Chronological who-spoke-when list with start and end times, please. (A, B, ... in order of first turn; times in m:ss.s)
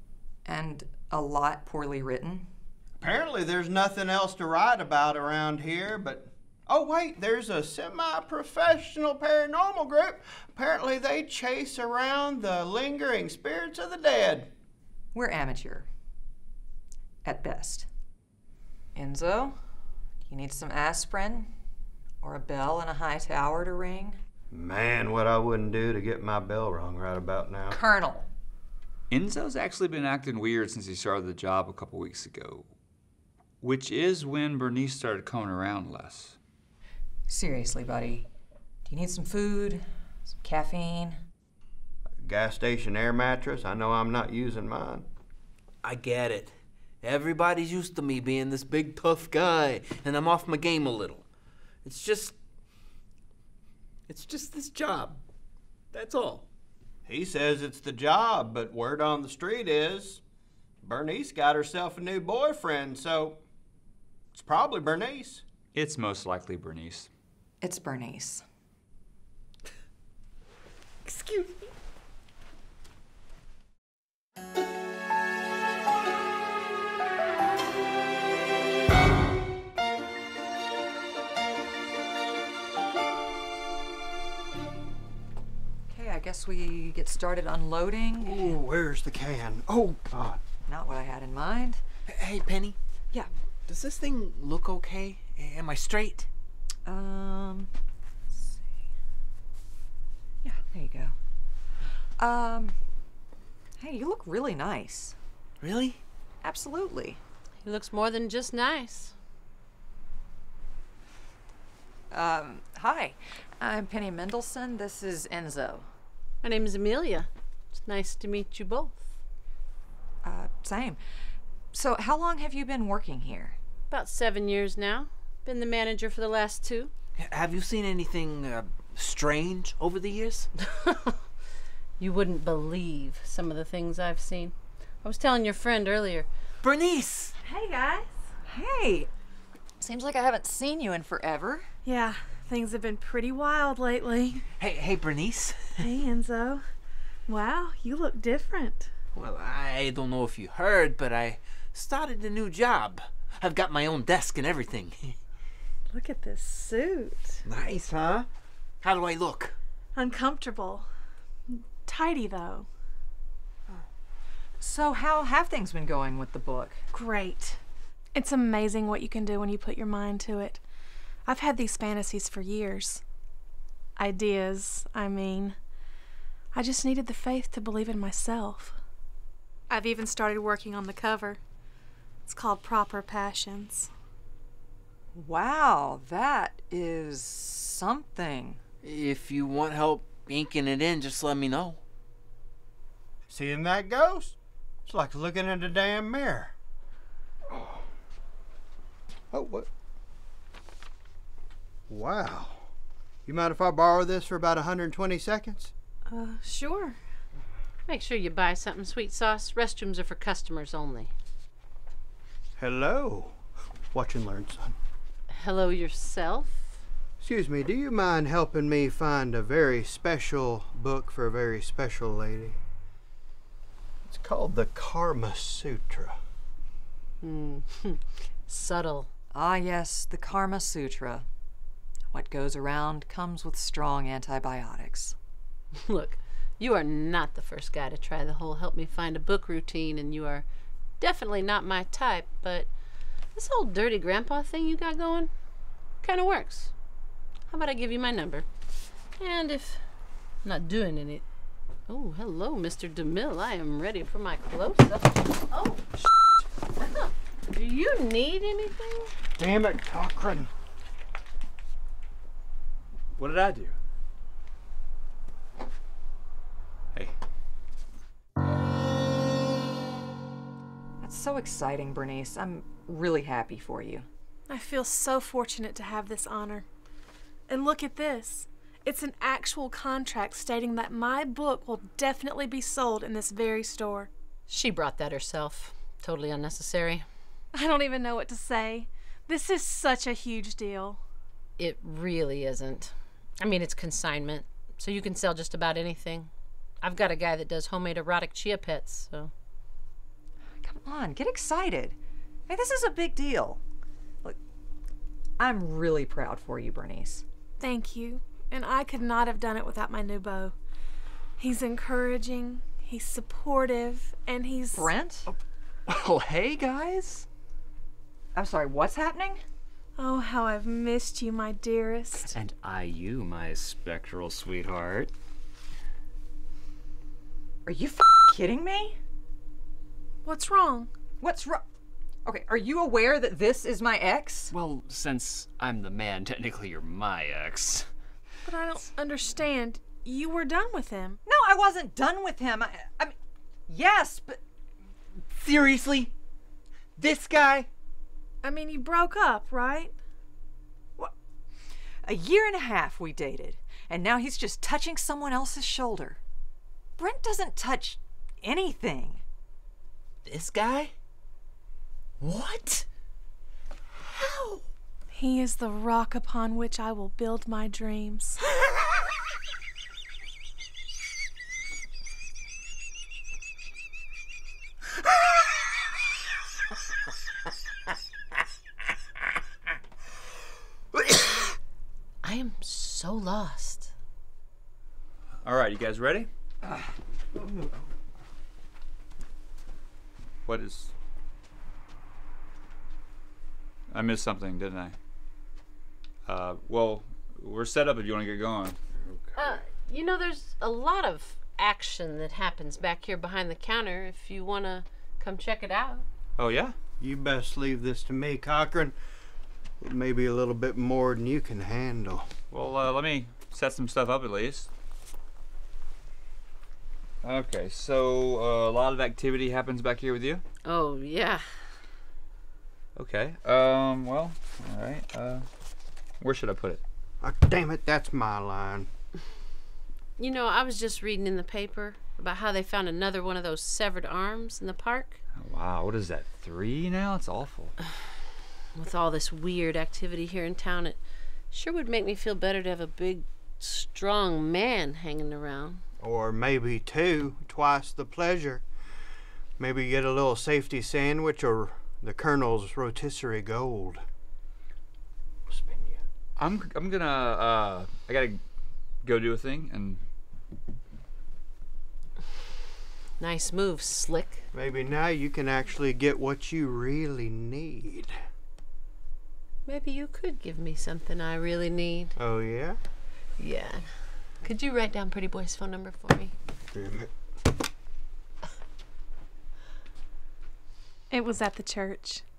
0:00.4-0:02.5 A
0:03.0-0:14.5 B
0:15.1-0:15.9 A
0:17.2-0:17.9 A
0:19.0-0:19.6 A
0:20.3-0:21.5 A
0:22.2-0:24.2 A
0:24.5-0:27.8 B
0:27.7-0:28.3 A
0:29.1-0:32.7 C
0:33.6-0:36.4 C
0:37.3-0:38.3 A
0:38.9-0:41.2 A
0:42.2-0:45.1 B
0:45.8-0:46.5 D
0:47.0-0:51.2 D
0:51.8-0:52.4 D
0:54.1-0:55.2 D
0:55.9-0:56.4 D
0:57.1-1:00.2 B
1:00.8-1:03.4 B
1:04.3-1:05.4 B
1:05.7-1:07.1 C
1:07.6-1:08.4 A
1:11.1-1:11.7 E
1:25.9-1:28.6 A
1:28.2-1:30.4 B
1:30.7-1:31.8 A
1:32.1-1:32.8 D
1:33.7-1:36.3 D
1:36.8-1:37.7 A
1:40.4-1:41.2 A
1:42.2-1:42.8 A
1:43.8-1:45.2 A
1:45.6-1:46.0 D
1:46.4-1:47.2 A
1:47.6-1:49.1 F
1:52.1-1:55.9 A
1:56.4-1:59.1 F
2:00.2-2:01.0 A
2:01.7-2:03.6 A
2:03.9-2:06.9 F
2:07.2-2:10.5 D
2:10.8-2:11.1 F
2:12.0-2:16.3 F
2:16.6-2:17.4 D
2:17.4-2:18.1 E
2:18.5-2:19.1 A
2:19.8-2:21.7 A
2:21.8-2:24.5 E
2:24.6-2:25.8 D
2:25.8-2:26.6 E
2:27.3-2:28.9 E
2:29.1-2:35.2 D
2:35.9-2:37.4 E
2:37.4-2:38.3 D
2:38.8-2:39.6 D
2:40.0-2:40.9 E
2:41.5-2:42.7 E
2:44.6-2:46.8 A
2:46.9-2:47.6 E
2:48.1-2:50.6 E
2:51.2-2:53.0 E
2:54.0-2:55.6 E
2:56.5-2:58.8 E
2:59.7-3:01.4 E
3:02.3-3:03.9 E
3:05.1-3:08.6 A
3:08.8-3:11.8 D
3:13.3-3:16.5 B
3:17.5-3:17.8 B
3:19.3-3:19.7 B
3:21.9-3:22.6 B
3:23.3-3:25.7 B
3:26.1-3:27.0 E
3:27.9-3:31.1 F
3:32.6-3:33.4 B
3:33.9-3:34.8 B
3:35.3-3:36.8 F
3:37.2-3:42.6 B
3:44.1-3:46.2 B
3:47.2-3:49.1 F
3:49.3-3:51.3 A
3:52.1-3:55.2 A
3:55.7-4:00.4 F
4:01.0-4:02.7 F
4:03.3-4:05.3 F
4:06.0-4:06.7 F
4:07.5-4:08.5 F
4:09.2-4:09.8 F
4:10.4-4:11.2 F
4:11.9-4:15.8 F
4:16.8-4:19.1 F
4:19.4-4:20.5 B
4:23.2-4:23.7 C
4:31.0-4:34.1 A
4:34.5-4:36.6 E
4:37.5-4:44.1 E
4:44.5-4:47.1 F
4:47.5-4:51.0 E
4:51.6-4:56.3 F
4:56.8-4:59.3 F
5:00.6-5:02.0 A
5:02.5-5:03.6 A
5:05.4-5:07.2 A
5:07.6-5:10.6 E
5:11.4-5:14.9 E
5:14.7-5:15.3 A
5:15.9-5:17.3 G
5:18.4-5:19.4 A
5:20.0-5:22.3 E
5:22.3-5:25.1 G
5:27.7-5:29.0 A
5:30.2-5:30.9 E
5:31.2-5:31.6 A
5:32.2-5:34.5 A
5:34.5-5:37.9 G
5:38.4-5:41.2 E
5:41.3-5:43.2 A
5:43.7-5:44.4 A
5:45.3-5:46.1 D
5:47.0-5:47.7 D
5:48.4-5:50.0 E
5:52.0-5:56.2 A
5:57.0-5:59.2 A
6:00.2-6:00.9 D
6:02.2-6:02.9 D
6:04.1-6:04.6 D
6:05.1-6:08.4 E
6:22.2-6:23.9 F
6:25.4-6:26.7 C
6:30.4-6:30.9 C
6:33.9-6:35.0 C
6:36.3-6:38.8 C
6:39.1-6:39.6 B
6:39.4-6:46.1 F
6:46.4-6:46.8 C
6:47.0-6:49.0 B
6:49.8-6:52.4 B
6:52.5-6:54.7 C
6:57.2-7:00.4 C
7:00.6-7:01.7 F
7:03.0-7:05.5 C
7:06.2-7:06.8 C
7:07.2-7:08.9 B
7:10.2-7:15.2 F
7:15.3-7:17.7 C
7:18.8-7:25.8 F
7:26.0-7:28.6 B
7:29.6-7:34.0 B
7:35.5-7:36.0 B
7:36.4-7:38.4 C
7:39.0-7:40.0 C
7:43.2-7:44.4 F
7:44.5-7:48.2 B
7:49.7-7:52.2 F
7:52.2-7:52.8 B
7:53.4-7:56.3 F
7:56.7-7:57.1 B
8:01.1-8:02.2 E